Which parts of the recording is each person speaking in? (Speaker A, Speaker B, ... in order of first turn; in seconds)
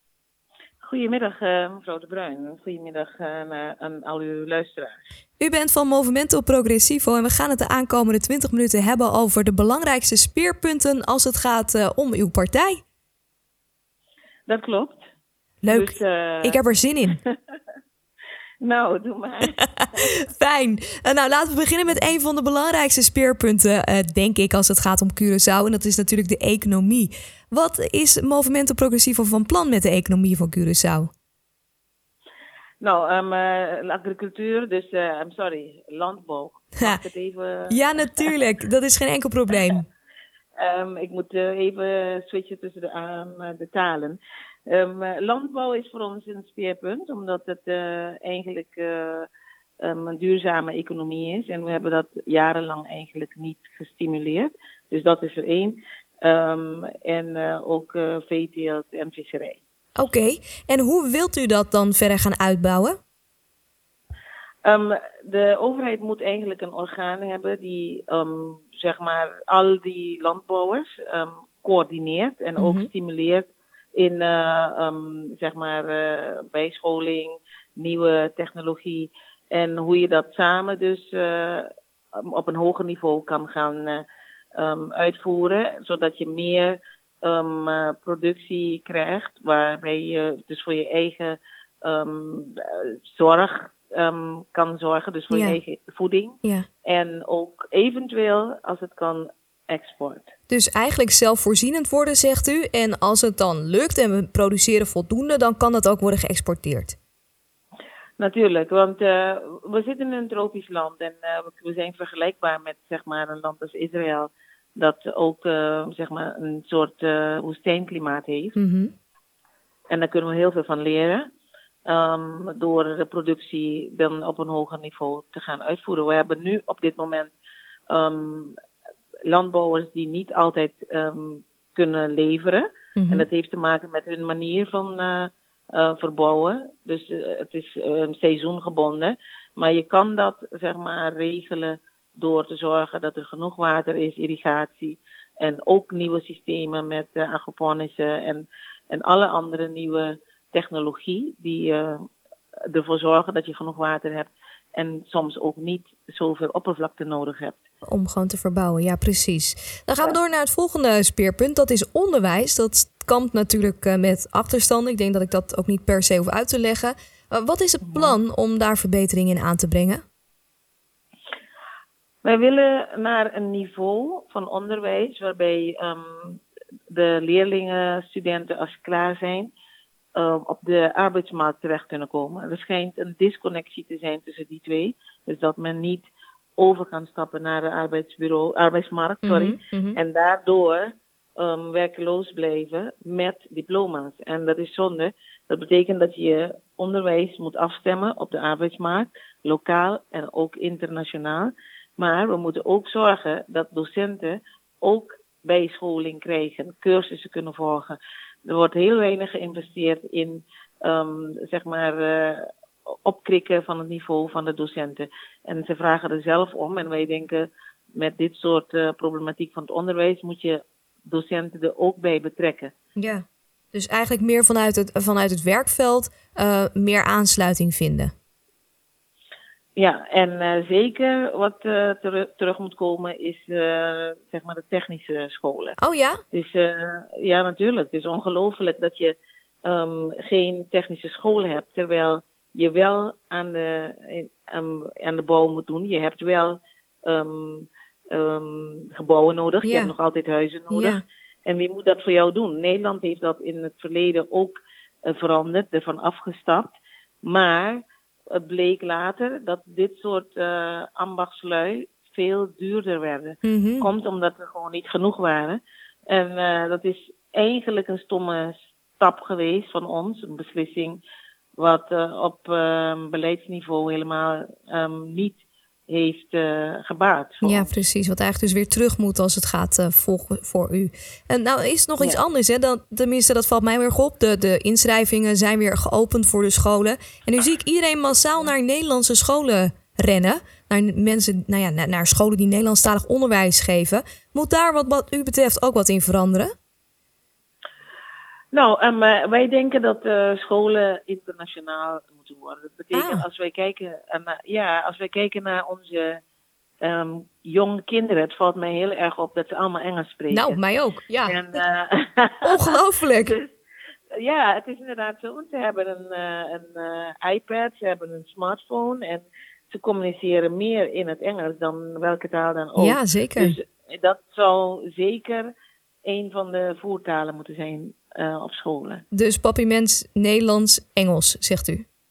Speaker A: 0.8-5.0, 14.5-15.0, 15.7-17.6, 18.6-20.1, 32.8-38.3, 40.6-49.3, 49.8-59.6, 64.6-84.0, 84.5-100.3, 108.2-118.5, 119.9-121.3, 121.8-127.3, 127.9-128.6, 129.3-152.1, 152.6-157.6, 167.8-168.2, 172.2-179.5, 180.1-212.5, 213.0-222.7, 229.8-235.8, 236.3-271.0, 271.6-277.7, 298.5-306.2, 306.8-310.6, 311.2-313.5, 314.1-325.5, 326.0-329.0
Speaker B: 5.4-12.8, 15.6-17.2, 19.6-31.1, 37.7-39.9, 60.0-63.0, 72.6-72.9, 95.3-95.6, 100.5-107.0, 118.5-118.9, 132.9-133.2, 157.8-170.0, 189.2-190.0, 222.9-228.1, 235.8-236.2, 249.6-249.9, 250.7-251.0, 263.4-263.9, 277.4-296.5, 302.9-303.2, 310.3-311.4, 312.4-313.3, 322.8-323.6, 329.1-331.9